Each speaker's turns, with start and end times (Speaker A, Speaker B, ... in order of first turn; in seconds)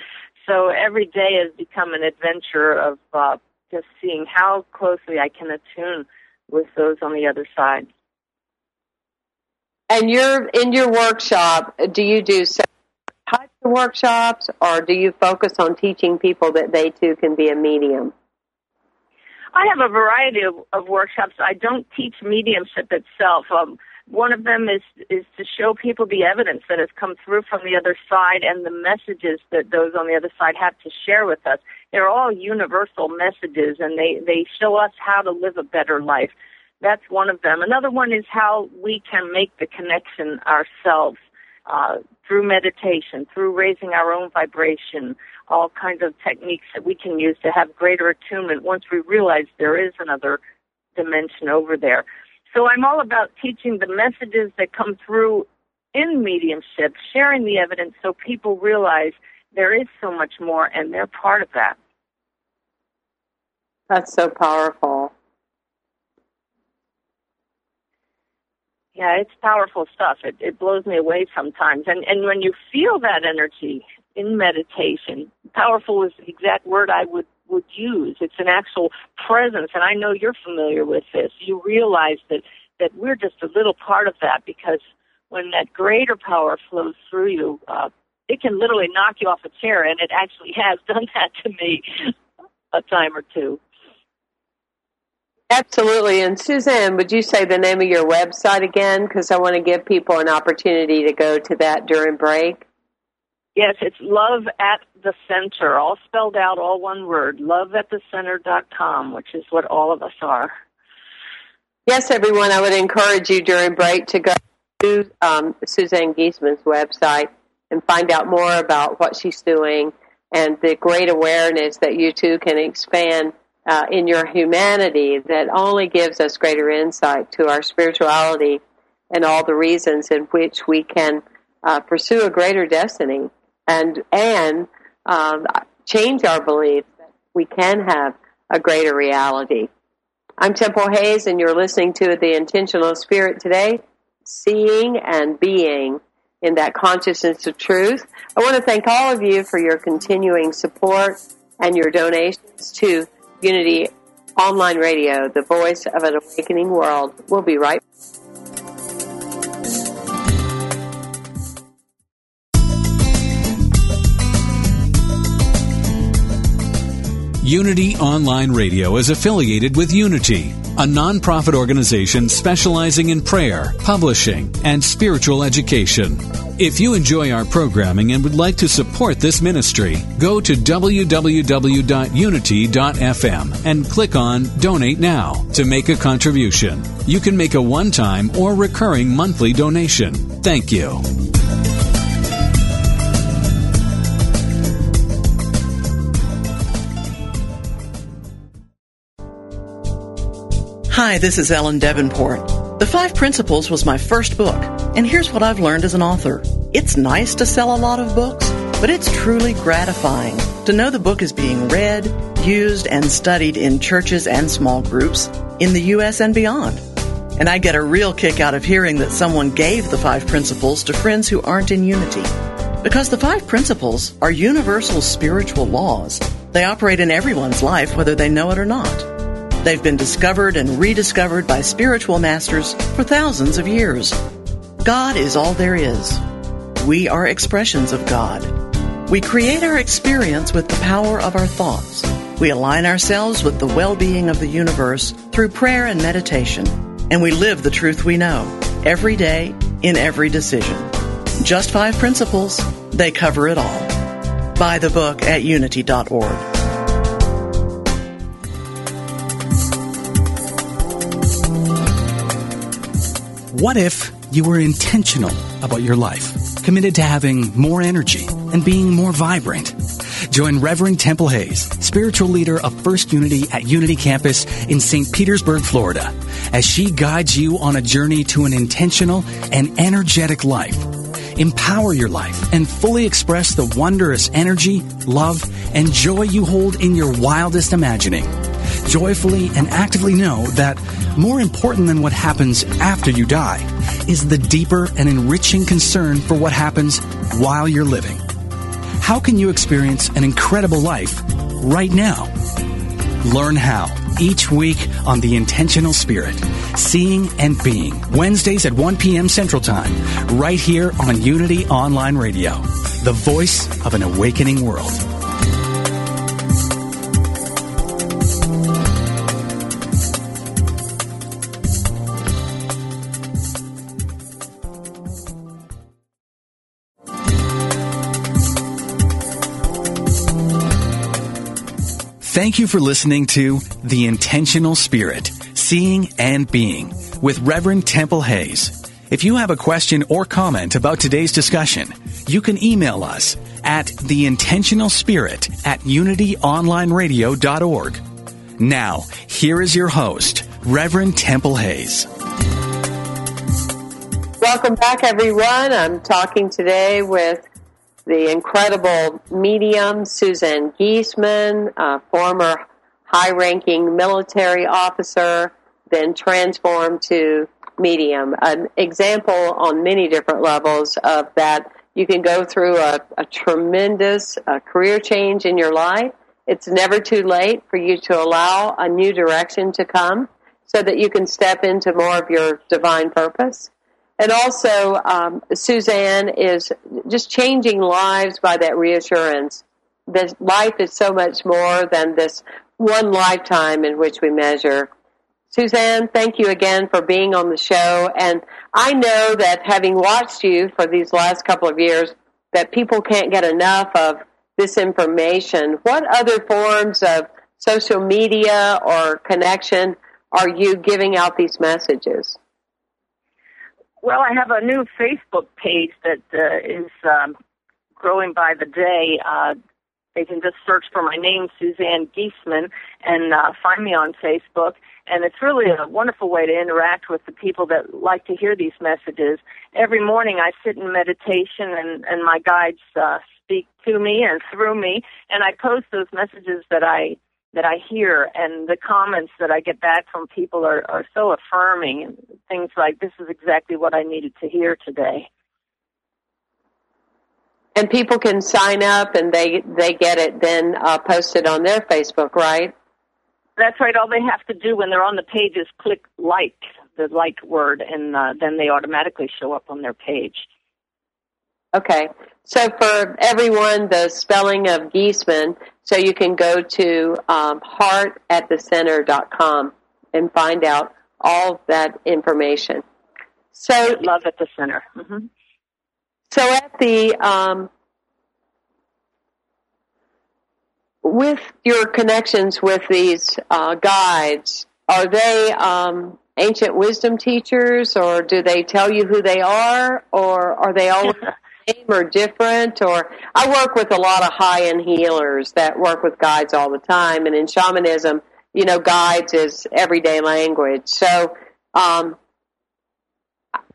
Speaker A: 0.4-7.9, 19.5-50.4, 51.0-61.8, 69.0-92.1, 92.7-93.6, 103.5-110.5, 414.0-417.3, 418.0-419.6, 420.1-445.3, 453.6-460.4, 473.9-475.3
Speaker B: 9.9-12.7, 13.3-18.1, 63.9-65.1, 95.5-102.6, 111.9-139.7, 140.4-157.8, 354.4-357.4, 358.1-394.9, 395.5-412.4, 447.7-452.7, 461.7-472.8, 473.5-474.0, 476.3-477.7, 481.0-502.2
Speaker C: 167.4-191.1
Speaker D: 200.9-216.8, 217.3-222.3, 222.8-234.2, 234.8-236.2, 236.8-256.5
Speaker E: 263.5-298.2, 299.0-302.3, 303.2-315.0, 332.2-348.0, 348.6-352.1